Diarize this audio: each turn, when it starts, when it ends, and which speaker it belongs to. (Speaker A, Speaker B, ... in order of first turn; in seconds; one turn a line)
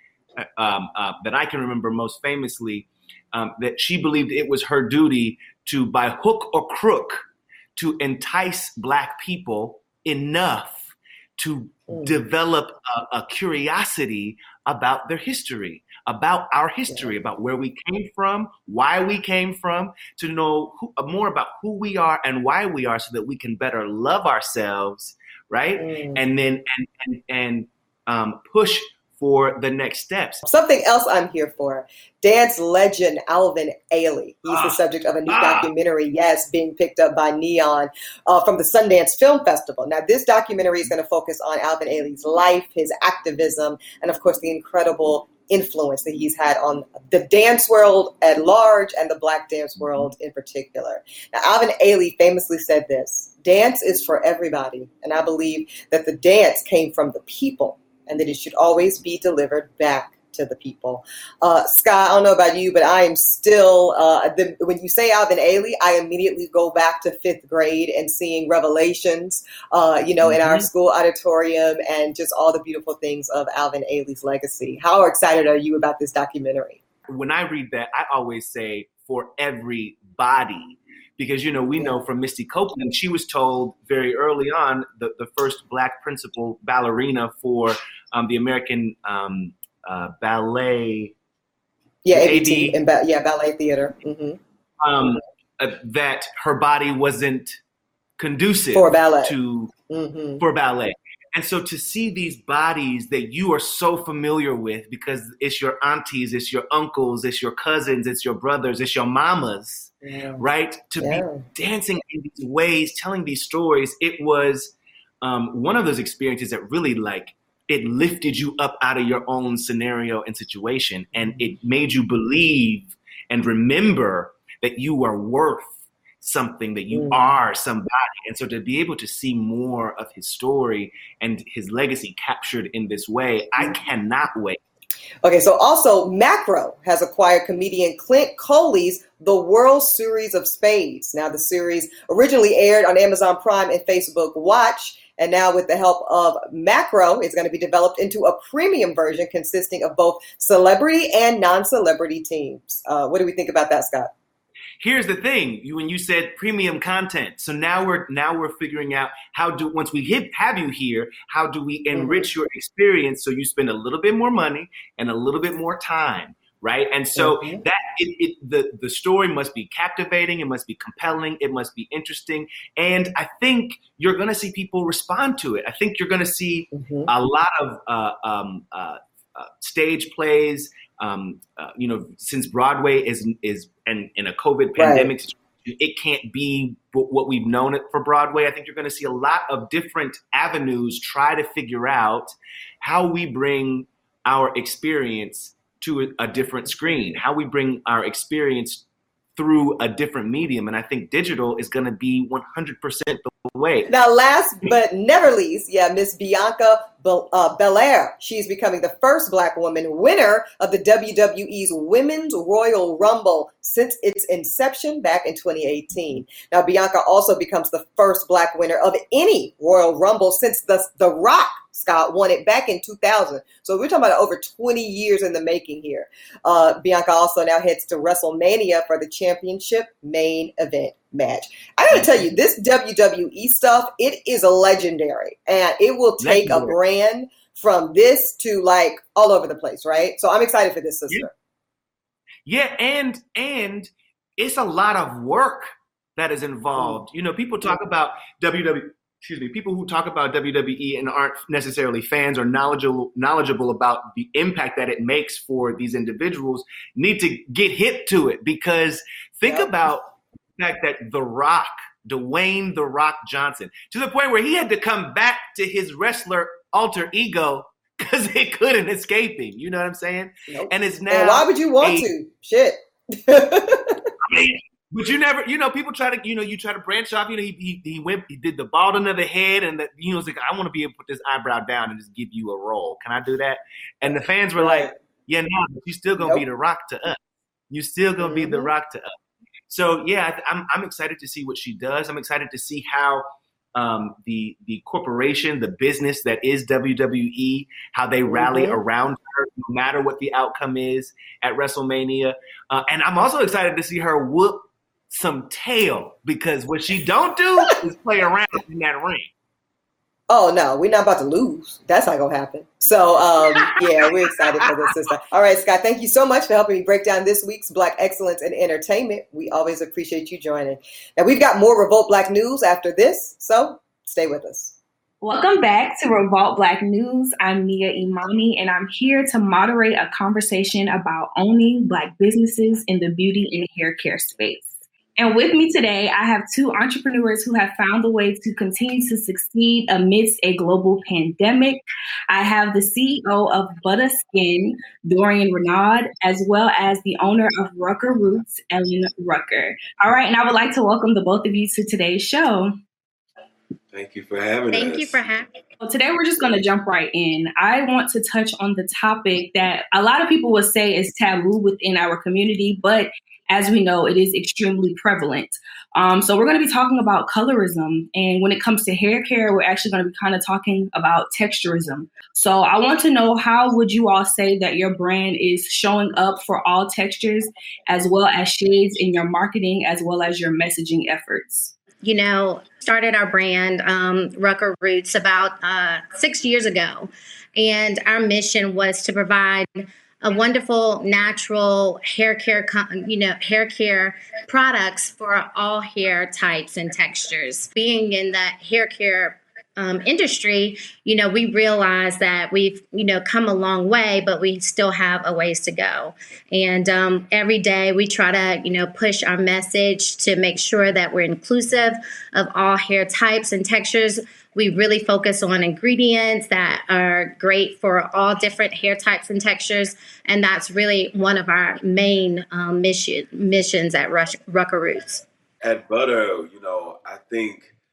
Speaker A: 0.4-7.2
Speaker A: 7.8-30.4
Speaker B: 11.9-12.2
Speaker B: 25.8-26.2
Speaker B: 30.4-76.8
Speaker A: 34.5-35.7
Speaker A: 70.2-70.7
Speaker A: 77.1-91.1
Speaker B: 92.0-94.4
Speaker A: 92.1-92.8
Speaker A: 94.8-97.6
Speaker A: 98.2-99.7
Speaker B: 98.7-99.3
Speaker B: 99.9-100.4
Speaker A: 100.4-125.7
Speaker B: 110.0-110.5
Speaker B: 111.0-111.5
Speaker A: 126.2-134.6
Speaker B: 126.9-127.2
Speaker B: 135.2-154.1
Speaker A: 154.8-198.8
Speaker B: 161.9-162.3
Speaker B: 167.2-167.6
Speaker B: 176.7-177.1
Speaker B: 184.8-185.1
Speaker A: 199.4-203.9
Speaker B: 203.9-241.3
Speaker A: 231.9-232.2
Speaker A: 236.2-236.8
Speaker A: 242.5-272.1
Speaker B: 246.8-247.0
Speaker B: 259.5-259.9
Speaker B: 270.5-274.0
Speaker A: 274.3-287.2
Speaker B: 284.6-284.9
Speaker A: 287.7-289.1
Speaker B: 288.2-288.7
Speaker A: 289.7-309.3
Speaker B: 298.3-298.8
Speaker B: 310.3-324.7
Speaker A: 313.6-314.7
Speaker C: 325.2-352.7
Speaker D: 353.9-355.2
Speaker E: 354.7-355.5
Speaker C: 355.8-381.8
Speaker E: 382.0-425.2
Speaker D: 425.6-427.7